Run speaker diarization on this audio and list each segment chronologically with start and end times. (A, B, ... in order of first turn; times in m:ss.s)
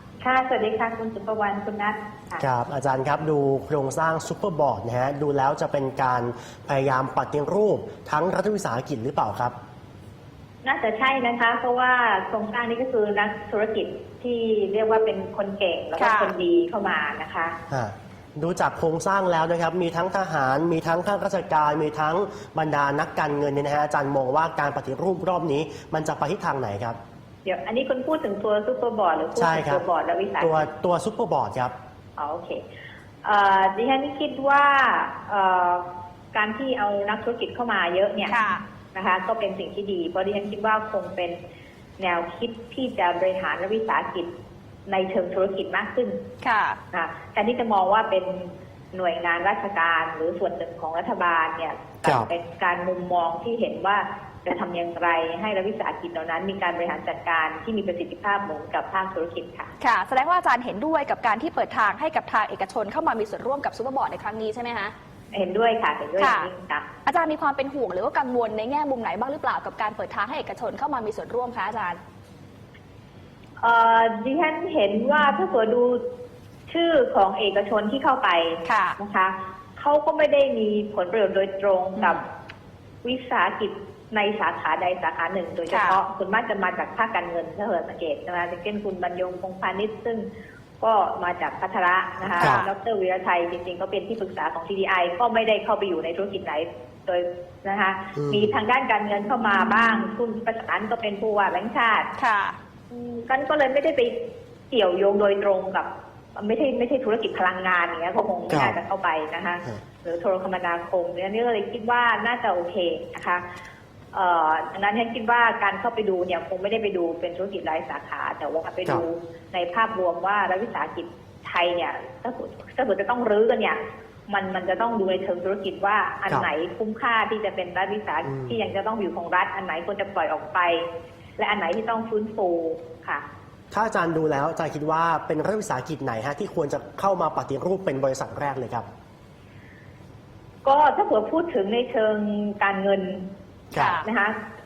0:00.2-0:02.4 A
0:02.4-0:09.5 B
0:10.6-0:17.6 A
0:16.0-0:16.3 C
0:17.7-0:27.0 B
0:27.4-0:30.7 A
0:29.4-0:29.8 B
0:30.4-0:31.7 B
0:32.2-0:32.6 A
0:33.2-0:41.4 A
0:38.3-0:38.6 C
0:42.0-0:44.3 A
0:44.9-0:46.2 A
0:46.4-0:46.8 C
0:46.9-0:59.7 A
0:59.8-1:04.9 C
1:05.3-1:06.9 A
1:06.2-1:06.5 C
1:07.0-1:12.0 C
1:13.6-1:16.0 A
1:16.7-1:22.2 A
1:18.6-1:19.0 C
1:23.0-1:30.2 A
1:25.7-1:26.0 C
1:30.8-1:42.1 A
1:32.4-1:32.6 B
1:32.4-1:32.7 C
1:38.2-1:38.5 B
1:42.2-1:42.6 C
1:42.9-1:44.2 A
1:44.7-1:53.4 A
1:48.5-1:48.8 B
1:54.1-2:10.8 A
2:08.2-2:08.5 B
2:11.4-2:13.2 A
2:13.7-2:18.8 B
2:20.6-2:23.2 A
2:23.7-2:24.0 C
2:23.7-2:24.0 B
2:24.0-2:24.3 A